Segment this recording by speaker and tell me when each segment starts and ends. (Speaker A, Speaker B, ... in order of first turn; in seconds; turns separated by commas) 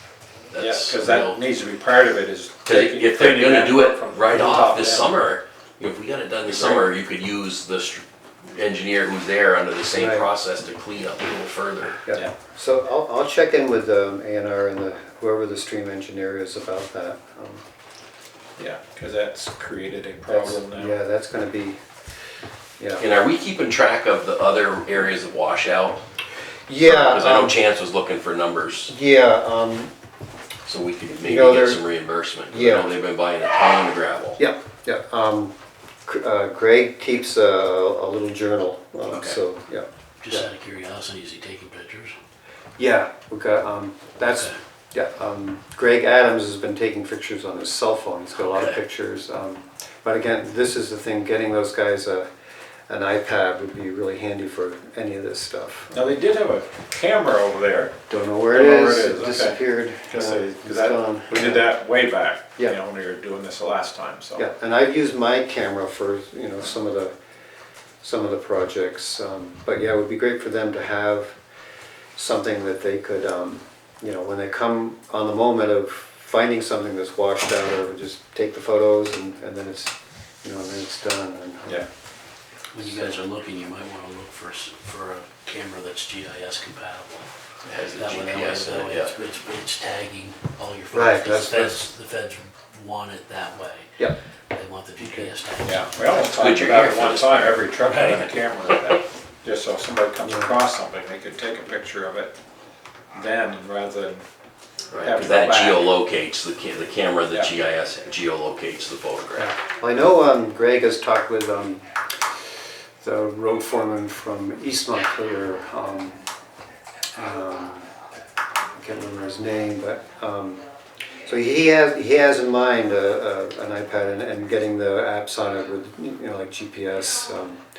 Speaker A: 0.5-1.4, Speaker B: 0.6-5.1, Speaker A: 2.6-12.0, Speaker B: 6.5-6.9, Speaker C: 9.9-10.3, Speaker C: 12.1-17.6, Speaker B: 18.6-20.9, Speaker C: 20.3-21.8, Speaker C: 22.8-23.0, Speaker A: 23.0-26.0, Speaker C: 26.7-27.6, Speaker A: 26.8-28.9, Speaker C: 28.9-29.9, Speaker A: 30.6-34.4, Speaker C: 31.2-31.8, Speaker C: 32.5-32.9, Speaker C: 34.4-35.5, Speaker C: 36.0-40.5, Speaker A: 39.1-39.4, Speaker D: 40.2-42.1, Speaker C: 42.8-52.3, Speaker D: 48.4-48.8, Speaker C: 52.9-56.1, Speaker B: 55.9-57.9, Speaker C: 58.1-61.7, Speaker B: 58.5-64.5, Speaker C: 64.3-67.1, Speaker C: 68.0-71.3, Speaker C: 72.2-81.8, Speaker D: 82.7-87.3, Speaker C: 82.8-83.2, Speaker A: 87.6-89.1, Speaker D: 87.9-93.9, Speaker C: 90.9-91.8, Speaker D: 94.5-96.4, Speaker C: 95.0-95.3, Speaker B: 95.6-102.3, Speaker A: 96.3-97.6, Speaker D: 97.8-98.2, Speaker C: 100.2-100.5, Speaker B: 103.1-104.2, Speaker A: 104.9-109.5, Speaker B: 104.9-105.9, Speaker C: 109.4-111.8, Speaker C: 113.0-116.2, Speaker C: 117.2-117.9, Speaker C: 118.7-120.6, Speaker C: 121.2-127.6